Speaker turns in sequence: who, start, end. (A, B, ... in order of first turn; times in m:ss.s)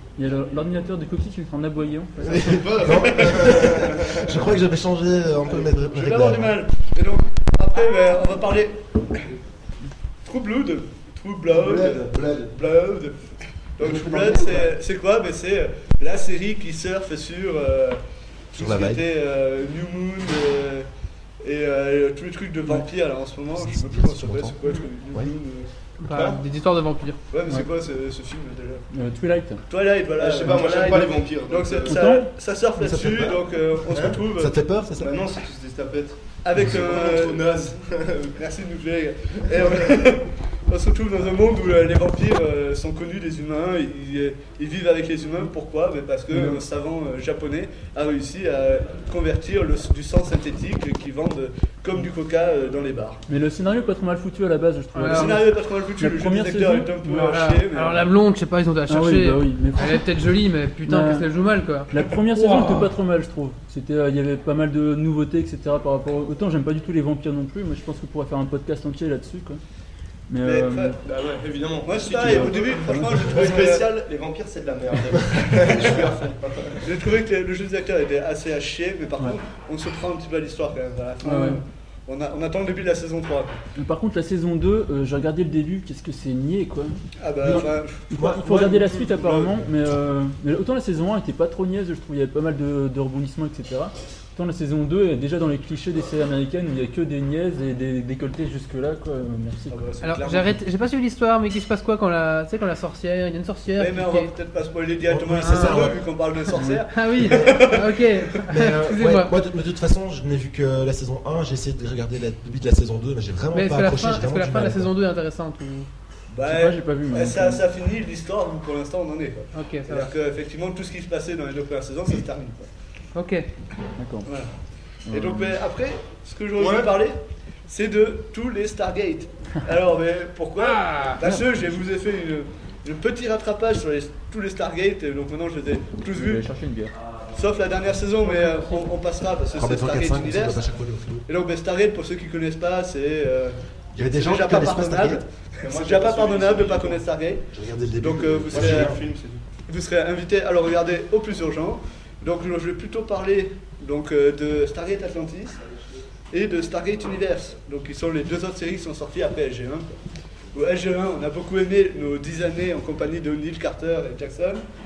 0:00.2-0:02.7 A
0:02.3-0:06.6 B
0:02.3-0:04.4 C
0:03.0-0:03.5 D
0:05.9-0:08.8 D
0:10.2-0:13.2 D
0:11.6-0:12.5 B
0:13.8-0:20.9 D
0:13.8-0:14.7 A
0:18.6-0:19.0 B
0:21.4-0:25.7 D
0:23.5-0:24.6 B
0:26.0-0:27.2 E
0:26.1-0:26.4 C
0:27.3-0:28.9 D
0:28.9-0:29.6 A
0:29.7-0:34.6 D
0:30.2-0:32.1 C
0:30.4-0:31.1 A
0:31.9-0:32.3 A
0:32.8-0:33.4 B
0:33.9-0:34.2 C
0:34.2-0:35.1 B
0:35.0-0:38.4 C
0:36.4-0:37.6 D
0:38.4-0:53.2 D
0:46.3-0:46.6 A
0:53.3-0:57.3 A
0:55.0-0:55.4 E
0:55.1-0:58.1 D
0:57.1-1:02.9 E
0:58.9-1:00.1 A
1:00.8-1:01.3 A
1:01.9-1:09.6 A
1:10.3-1:11.0 A
1:10.4-1:11.0 D
1:11.0-1:16.9 C
1:11.8-1:13.9 D
1:12.1-1:13.3 A
1:16.8-1:23.6 D
1:21.2-1:21.6 A
1:23.8-1:39.8 A
1:27.2-1:29.7 D
1:28.1-1:28.5 B
1:39.7-1:40.6 D
1:40.0-1:44.3 E
1:43.8-1:48.1 D
1:45.1-1:46.0 B
1:45.4-1:45.9 E
1:46.8-1:49.3 E
1:48.5-1:54.9 B
1:53.5-1:55.9 E
1:56.3-2:02.7 D
1:56.4-1:57.6 A
1:59.5-2:00.1 E
2:03.1-2:03.5 E
2:04.0-2:04.3 A
2:05.1-2:05.6 A
2:05.1-2:16.4 D
2:06.6-2:06.9 C
2:10.6-2:11.2 E
2:16.1-2:16.9 A
2:17.3-2:20.6 D
2:18.4-2:18.7 A
2:19.6-2:21.2 B
2:21.3-2:23.6 D
2:24.0-2:25.2 B
2:24.1-2:29.0 D
2:25.6-2:27.0 C
2:27.5-2:29.0 B
2:28.5-2:29.4 C
2:29.7-2:35.6 D
2:36.3-2:40.0 D
2:40.5-2:44.6 D